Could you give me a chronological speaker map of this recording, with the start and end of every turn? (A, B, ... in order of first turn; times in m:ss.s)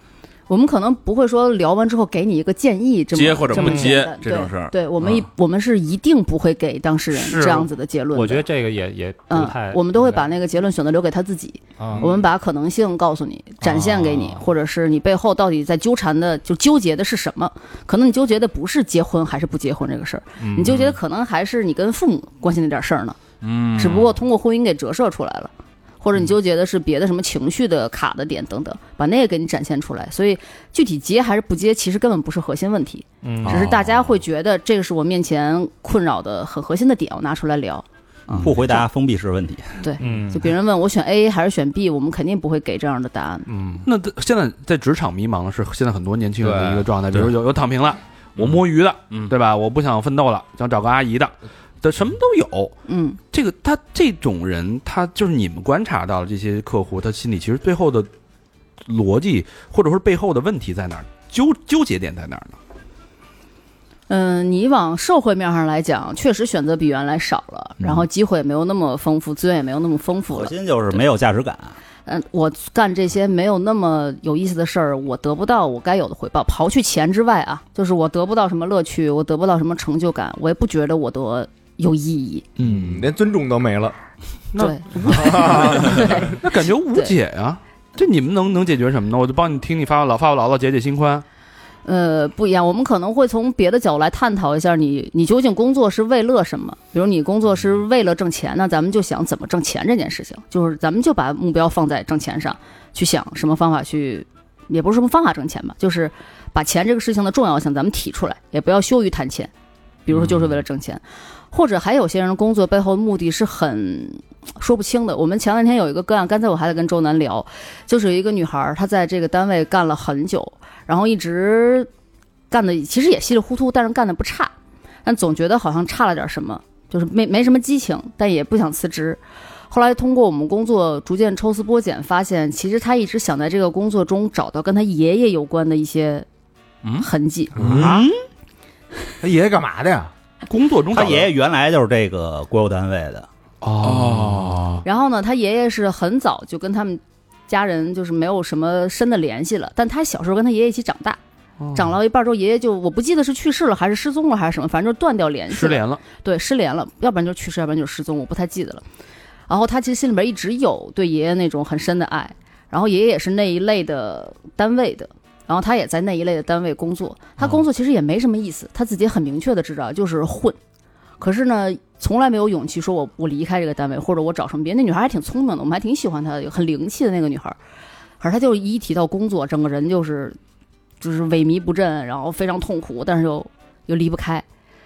0:00.5-0:08.4 A
0:03.1-0:05.2 B
0:03.5-0:03.9 C
0:07.1-0:10.3 C
0:09.3-0:23.2 A
0:11.8-0:12.1 C
0:13.6-0:14.2 C
0:20.4-0:20.8 C
0:23.4-0:24.2 B
0:23.8-0:25.5 A
0:26.0-0:37.8 A
0:33.2-0:33.7 C
0:33.4-0:34.1 B
0:38.4-0:39.8 D
0:39.8-0:43.5 A
0:40.0-0:40.5 C
0:43.5-0:43.8 C
0:43.8-0:52.7 E
0:46.4-0:46.9 F
0:48.4-0:49.3 B
0:52.9-0:53.2 A
0:53.3-0:58.1 E
0:58.8-1:02.6 E
1:04.1-1:11.0 A
1:10.3-1:11.8 D
1:12.0-1:22.4 A
1:22.6-1:23.1 E
1:22.6-1:23.9 F
1:24.5-1:31.2 E
1:24.6-1:27.1 A
1:31.8-1:49.5 A
1:50.0-1:51.0 A
1:51.5-2:01.9 A
2:02.5-2:04.5 A
2:05.0-2:16.2 A
2:16.8-2:18.0 B
2:17.0-2:17.6 A
2:17.6-2:18.1 E
2:17.6-2:17.9 F
2:19.2-2:20.1 F
2:20.5-2:21.3 E
2:20.9-2:23.3 D
2:23.6-2:24.8 E
2:23.8-2:24.8 B
2:24.8-2:31.2 A
2:31.6-2:32.0 E
2:31.7-2:38.8 A
2:35.5-2:36.0 E
2:39.5-2:50.6 A
2:51.2-2:57.6 A
2:58.2-3:00.4 A
3:01.0-3:04.4 A